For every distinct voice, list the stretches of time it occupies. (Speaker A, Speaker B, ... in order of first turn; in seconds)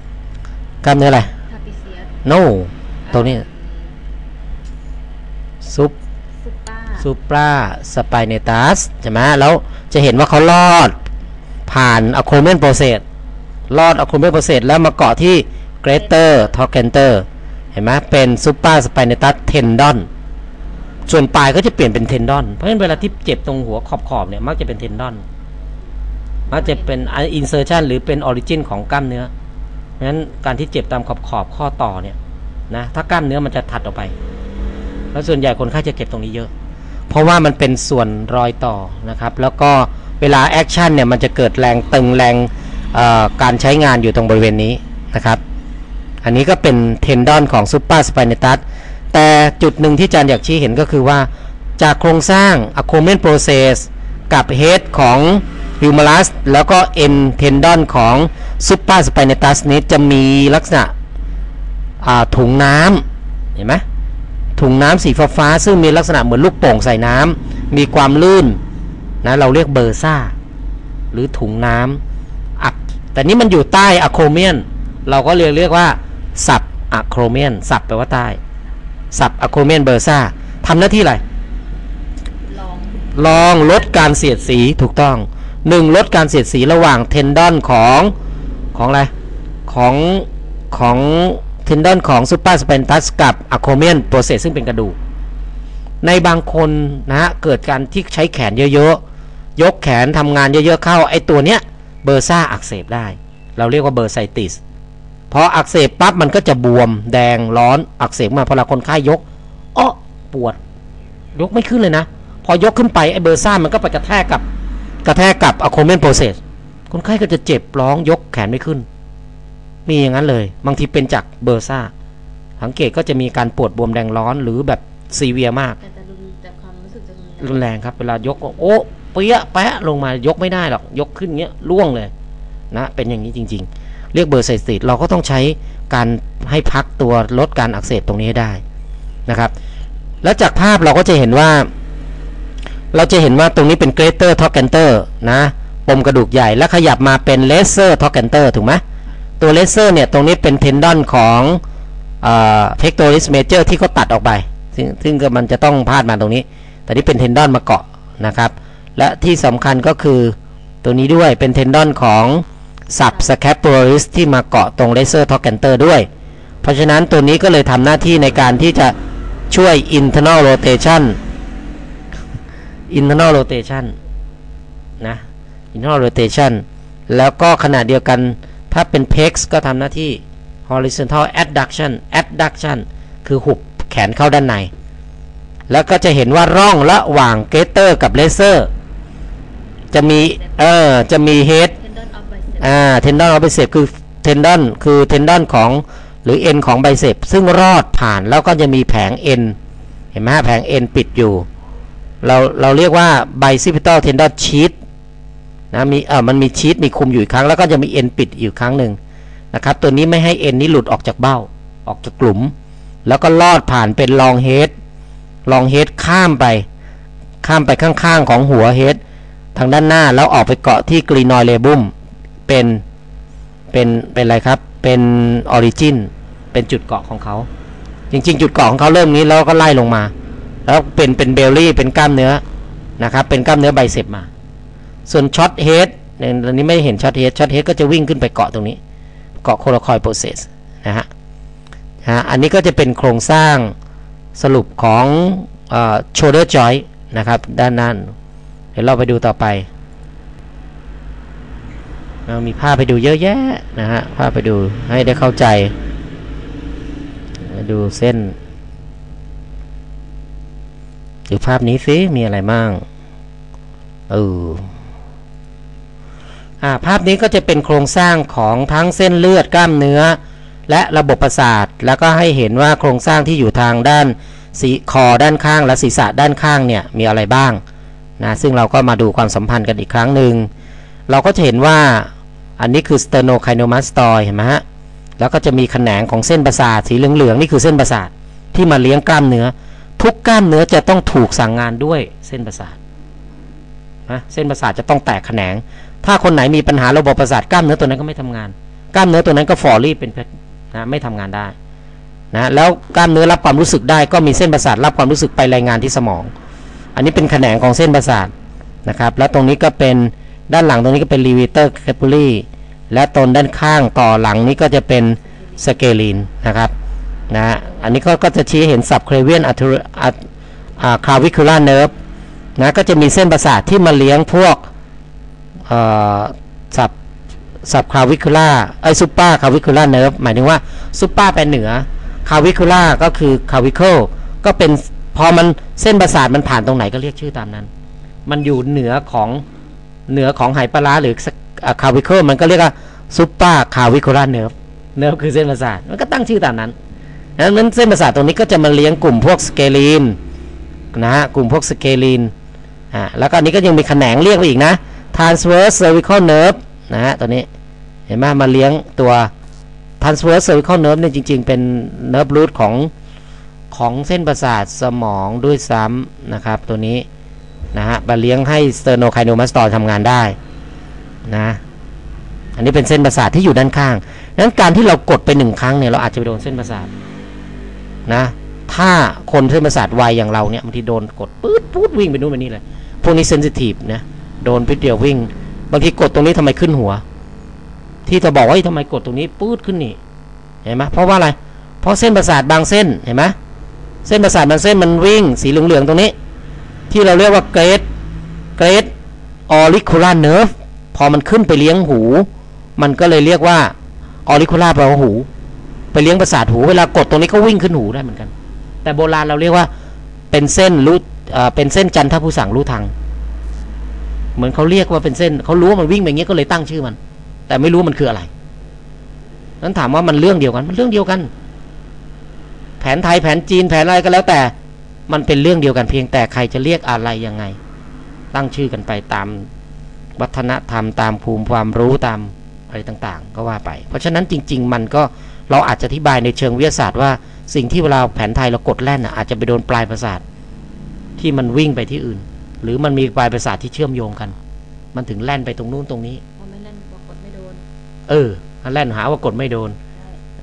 Speaker A: 0.8-1.3, 2.2-3.4, 5.6-5.9, 7.0-10.9, 11.7-13.0, 13.7-20.1, 21.1-25.2, 26.5-29.3, 30.0-32.2, 32.7-34.1, 35.1-36.5, 37.1-45.4, 46.2-60.9, 62.0-63.0, 63.5-63.8, 64.5-68.6, 69.2-70.3, 71.1-72.0, 72.6-78.4, 79.1-81.2, 83.1-88.1, 88.7-89.1, 89.7-95.0, 96.0-99.0, 99.6-104.6, 105.3-109.2, 109.7-110.6, 111.3-114.4, 115.0-118.8, 119.8-121.9, 122.6-125.8, 127.4-132.1, 132.7-138.6, 139.3-139.5, 140.2-141.7, 142.9-148.8, 149.4-151.6, 152.2-166.1, 166.6-168.9, 169.5-171.2, 172.9-173.9, 175.0-184.7, 185.7-188.7, 189.9-191.7, 192.6-199.6, 200.1-201.5, 202.2-204.7, 205.7-209.0, 209.5-212.5, 213.0-214.7, 215.4-216.7, 217.4-219.0, 219.5-221.9, 222.5-222.8, 223.7-227.5, 228.1-230.1, 230.7-232.4, 233.0-234.3, 235.1-238.8, 239.4-241.1, 242.0-243.7, 244.3-248.1, 248.7-249.7, 252.3-255.7, 257.4-258.3, 261.3-262.8, 264.1-264.7, 266.6-277.6, 278.2-280.5, 281.1-284.6, 285.2-292.8, 294.1-301.5, 302.3-306.3, 306.9-308.3, 308.9-316.7, 317.3-320.2, 320.8-321.9, 322.6-324.6, 325.7-326.9, 327.6-337.7, 338.2-339.4, 340.1-346.7, 347.4-350.2, 350.9-352.3, 352.9-357.5, 358.1-359.3, 360.0-362.9, 363.7-367.1, 367.7-370.4, 371.3-371.6, 372.6-376.9, 378.1-387.0, 388.1-390.0, 390.6-393.3, 394.0-396.1, 396.9-397.8, 398.6-398.9, 399.5-403.7, 404.2-405.3, 405.9-408.3, 408.8-409.7, 410.3-412.9, 414.4-417.0, 417.5-418.3, 419.6-421.3, 422.8-424.5, 425.1-427.6, 428.3-429.5, 430.2-440.2, 441.2-444.3, 444.9-446.2, 448.1-449.8
Speaker B: 1.5-2.2, 3.0-4.0, 6.4-7.1, 15.9-16.4, 26.5-27.0, 82.4-84.2, 125.8-127.7, 163.0-163.3, 190.1-190.7, 191.8-193.1, 315.5-315.8, 446.4-447.6, 449.9-450.2